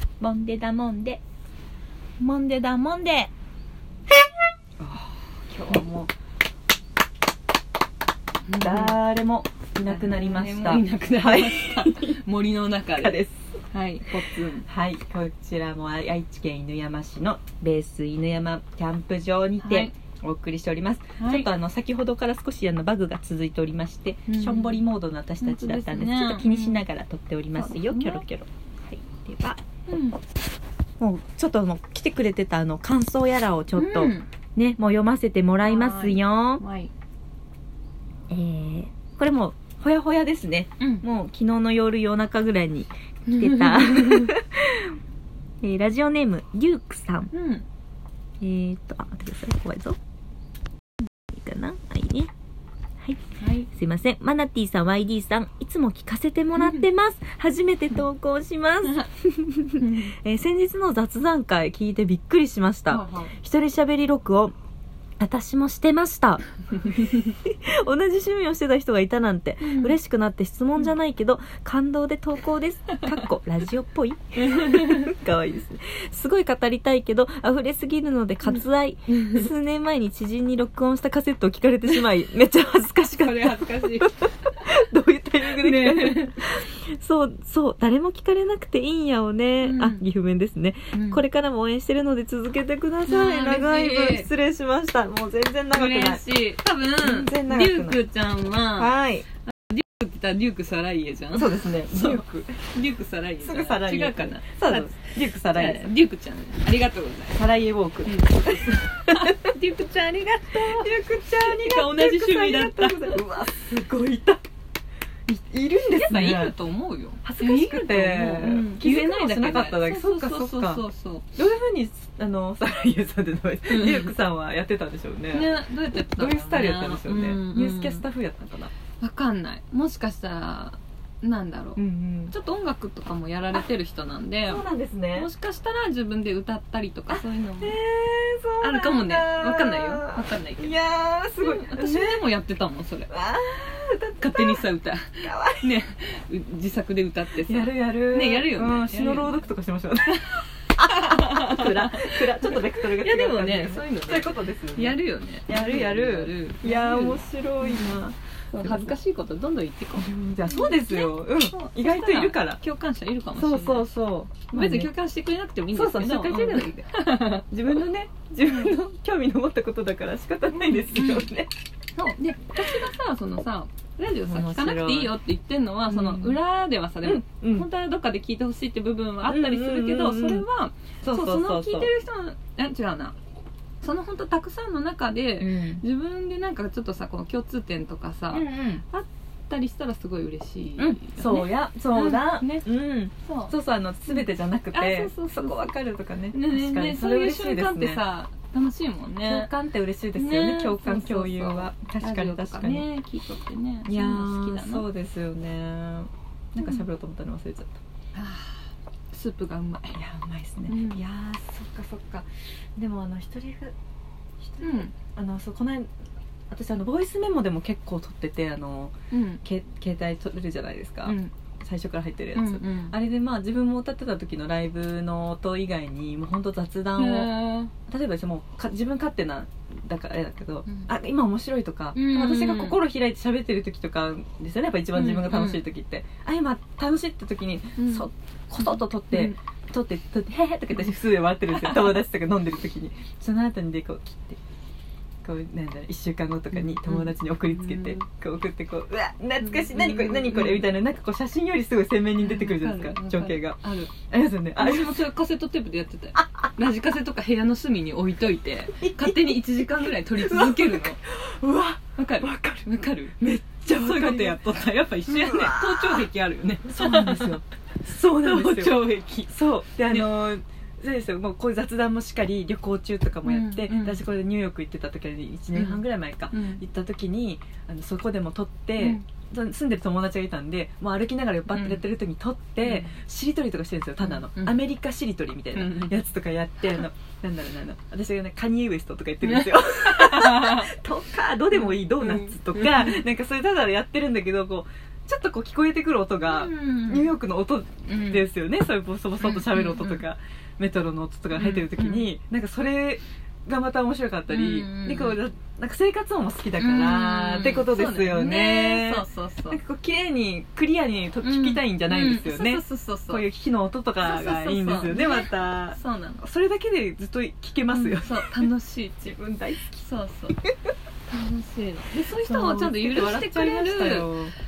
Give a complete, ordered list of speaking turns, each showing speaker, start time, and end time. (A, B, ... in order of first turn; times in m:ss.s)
0:00.2-0:01.2 A
0:02.2-0:03.3 A
0:04.8-0:06.1 A
0:08.5-0:09.0 B
0:08.6-0:12.2 A
0:09.8-0:13.2 B
0:12.9-0:13.5 A
0:13.7-0:14.6 B
0:14.2-0:29.6 A
0:19.6-0:19.9 B
0:21.2-0:21.5 B
0:24.3-0:24.8 B
0:25.4-0:26.8 B
0:27.6-0:28.2 B
0:29.9-0:30.2 B
0:31.0-0:36.6 A
0:33.8-0:34.3 B
0:35.6-0:36.9 B
0:38.3-0:44.9 A
0:40.8-0:41.0 B
0:43.3-0:44.3 B
0:45.6-0:47.3 A
0:47.3-0:47.6 B
0:48.4-0:50.0 A
0:51.3-0:52.3 A
0:53.0-1:04.5 A
0:53.4-0:53.7 B
0:56.6-0:56.8 B
0:59.8-1:00.1 B
1:02.9-1:03.3 B
1:05.2-1:36.2 A
1:09.6-1:09.9 B
1:14.5-1:15.1 B
1:23.1-1:24.7 B
1:25.4-1:26.4 B
1:29.6-1:30.0 B
1:30.9-1:31.2 B
1:33.1-1:34.3 B
1:35.7-1:39.0 B
1:37.0-1:38.0 A
1:38.8-1:39.2 A
1:39.7-1:47.4 B
1:41.3-1:42.7 A
1:43.4-1:45.9 A
1:47.3-1:49.5 A
1:48.0-1:53.5 B
1:50.5-1:54.4 A
1:55.3-1:56.5 A
1:55.9-2:01.3 B
1:57.2-2:00.8 A
2:01.4-2:05.6 A
2:03.7-2:04.1 B
2:05.3-2:08.0 B
2:06.1-2:08.7 A
2:09.0-2:11.8 B
2:11.8-2:12.3 A
2:12.3-2:14.6 B
2:14.5-2:15.3 A
2:15.1-2:17.8 B
2:17.1-2:22.2 A
2:18.6-2:20.8 B
2:21.4-2:23.1 B
2:23.1-2:24.6 A
2:24.2-2:29.4 B
2:25.2-2:25.7 A
2:27.4-2:39.0 A
2:30.1-2:43.9 B
2:40.0-2:42.6 A
2:43.3-2:44.9 A
2:44.5-2:47.8 B
2:45.7-2:46.8 A
2:47.5-2:51.5 A
2:48.4-2:48.8 B
2:50.5-2:51.3 B
2:51.9-3:03.2 B
2:54.3-2:55.1 A
2:55.9-2:56.4 A
2:57.0-2:57.7 A
2:59.3-3:00.4 A
3:01.0-3:01.9 A
3:03.8-3:12.6 B
3:05.4-3:05.8 A
3:08.3-3:08.8 A
3:10.8-3:18.0 A
3:13.2-3:13.5 B
3:14.1-3:15.7 B
3:16.3-3:19.5 B
3:19.2-3:22.9 A
3:20.1-3:24.9 B
3:23.8-3:27.8 A
3:26.6-3:26.8 B
3:28.1-3:30.0 B
3:29.9-3:33.7 A
3:30.7-3:31.0 B
3:34.4-3:35.9 A
3:34.6-3:35.0 B
3:36.5-4:04.4 A
3:39.1-3:39.4 B
3:41.0-3:41.3 B
3:42.3-3:43.0 B
3:47.0-3:47.7 B
3:51.9-3:52.8 B
3:54.9-3:55.6 B
3:57.8-3:58.1 B
3:58.6-3:59.4 B
4:01.6-4:01.8 B
4:05.2-4:14.9 A
4:06.5-4:08.0 B
4:09.4-4:10.7 B
4:12.2-4:14.0 B
4:14.6-4:21.0 B
4:16.2-4:16.5 A
4:18.8-4:19.4 A
4:20.1-4:24.4 A
4:22.0-4:30.1 B
4:25.1-4:26.1 A
4:26.6-5:18.3 A
4:33.2-4:34.1 B
4:35.5-4:36.6 B
4:41.5-4:41.9 B
4:42.6-4:42.9 B
4:44.0-4:44.6 B
4:45.5-4:46.0 B
4:49.2-4:50.7 B
4:51.5-4:53.0 B
4:56.2-4:57.2 B
4:57.8-4:58.2 B
4:59.2-5:00.0 B
5:01.3-5:02.1 B
5:04.3-5:05.2 B
5:06.6-5:09.6 B
5:11.2-5:13.3 B
5:14.0-5:16.2 B
5:17.7-5:19.2 B
5:19.0-5:19.8 A
5:19.7-5:20.4 B
5:21.1-5:24.1 B
5:22.1-5:24.3 A